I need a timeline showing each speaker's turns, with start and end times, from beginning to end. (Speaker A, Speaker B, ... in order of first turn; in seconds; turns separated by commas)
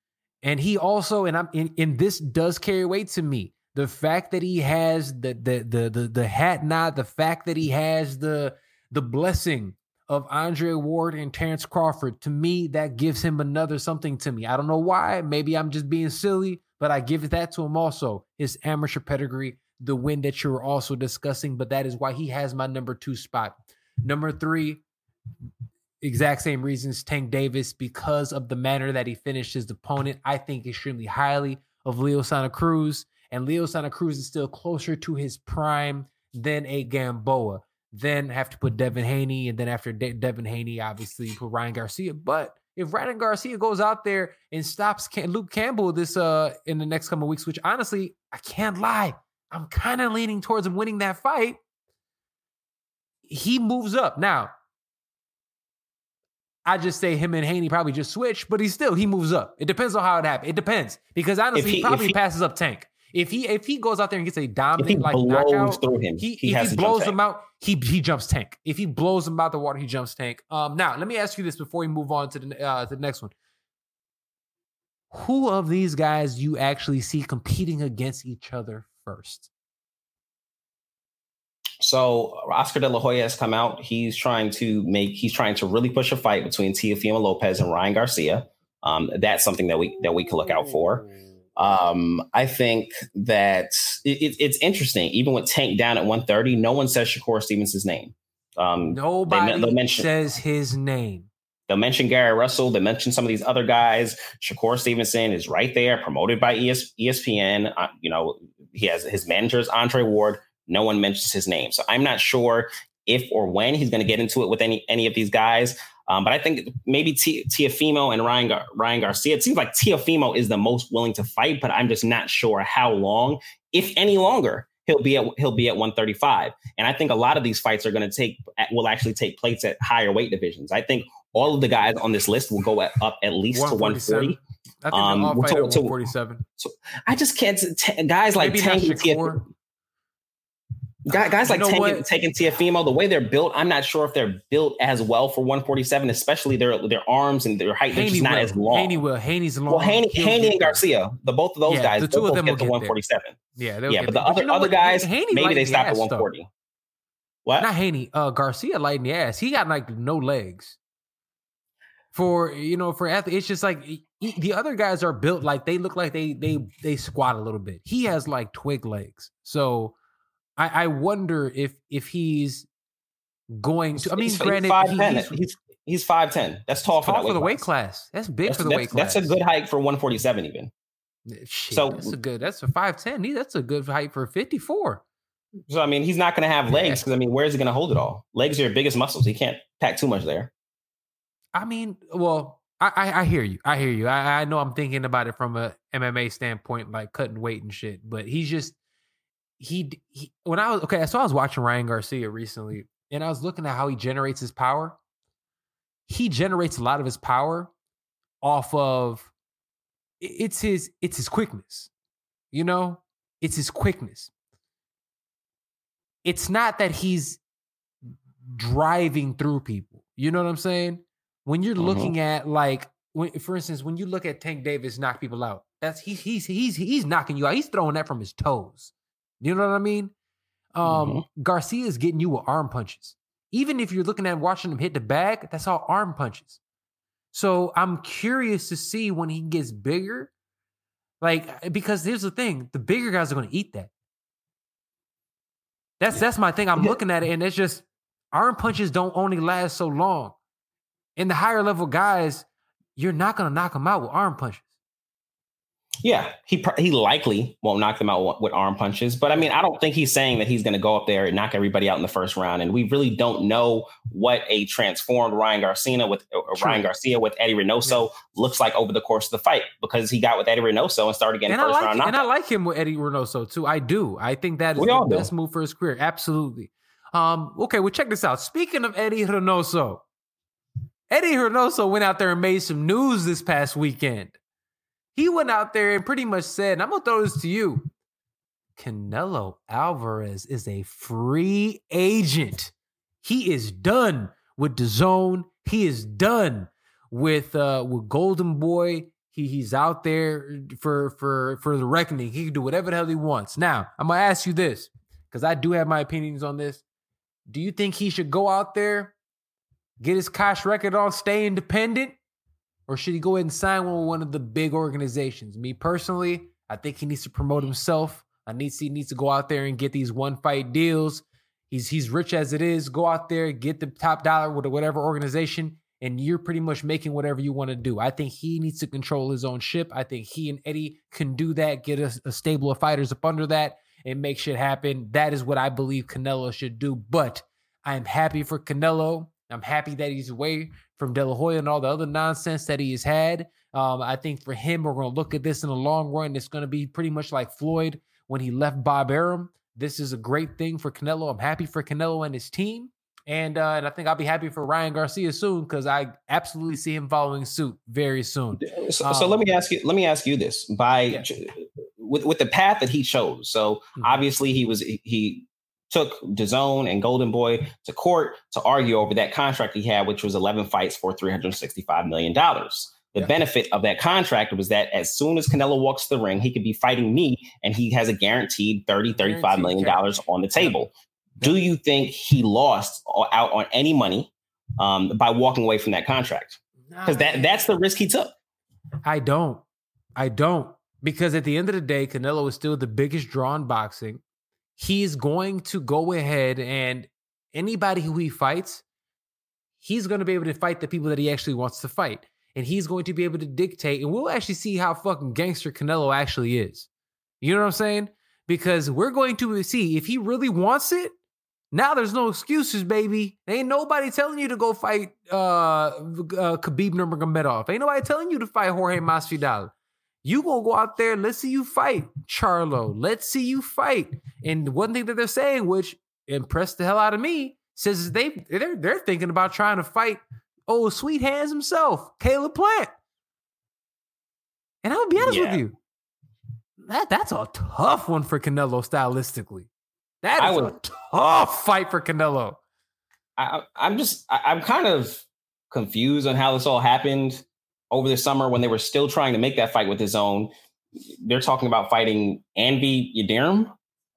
Speaker A: 0.4-24.8, Speaker A: 26.0-51.6, Speaker A: 53.3-54.5, Speaker A: 56.6-73.3, Speaker B: 61.5-62.1, Speaker B: 64.8-67.2, Speaker A: 75.1-79.5, Speaker B: 81.8-100.1, Speaker A: 98.9-101.3, Speaker B: 101.7-134.4, Speaker A: 133.5-136.4, Speaker B: 134.9-136.0, Speaker B: 136.6-139.4, Speaker A: 138.4-139.4, Speaker B: 141.1-149.0, Speaker A: 141.1-142.0, Speaker A: 147.9-150.8, Speaker B: 149.7-156.5, Speaker A: 151.7-152.9, Speaker A: 153.6-156.3, Speaker A: 157.6-160.8, Speaker A: 162.1-169.9, Speaker A: 170.6-172.7, Speaker A: 173.5-175.4, Speaker B: 173.9-177.7, Speaker A: 177.0-179.4, Speaker B: 178.4-180.7, Speaker A: 181.3-185.0, Speaker B: 181.7-182.1, Speaker B: 185.7-190.5, Speaker A: 186.7-187.0, Speaker A: 191.5-198.8, Speaker A: 199.6-205.0, Speaker A: 206.1-207.7, Speaker A: 208.4-209.3, Speaker A: 210.2-211.9, Speaker A: 212.5-214.3, Speaker A: 216.2-217.4, Speaker A: 218.4-230.1, Speaker B: 221.8-222.1, Speaker A: 230.7-236.6, Speaker B: 230.8-231.2, Speaker A: 237.3-240.3, Speaker A: 241.2-243.9, Speaker A: 246.0-250.4, Speaker A: 251.2-254.7, Speaker B: 256.0-272.2, Speaker A: 266.5-266.9, Speaker A: 271.5-280.0, Speaker B: 274.8-275.3, Speaker A: 281.1-284.4, Speaker A: 285.1-287.9, Speaker A: 288.8-306.8, Speaker A: 307.5-309.1, Speaker A: 310.0-312.1, Speaker A: 312.9-359.4, Speaker B: 358.6-388.3, Speaker A: 379.2-380.8, Speaker A: 386.9-387.7, Speaker A: 389.0-389.6, Speaker A: 390.2-394.2, Speaker A: 394.8-398.8, Speaker A: 399.8-406.9, Speaker A: 407.4-411.1, Speaker A: 411.7-419.7, Speaker A: 420.2-432.9, Speaker A: 434.8-435.7, Speaker B: 435.2-435.6, Speaker A: 436.9-439.7, Speaker A: 440.2-442.6, Speaker B: 440.4-440.7, Speaker B: 443.4-450.5, Speaker B: 451.2-453.7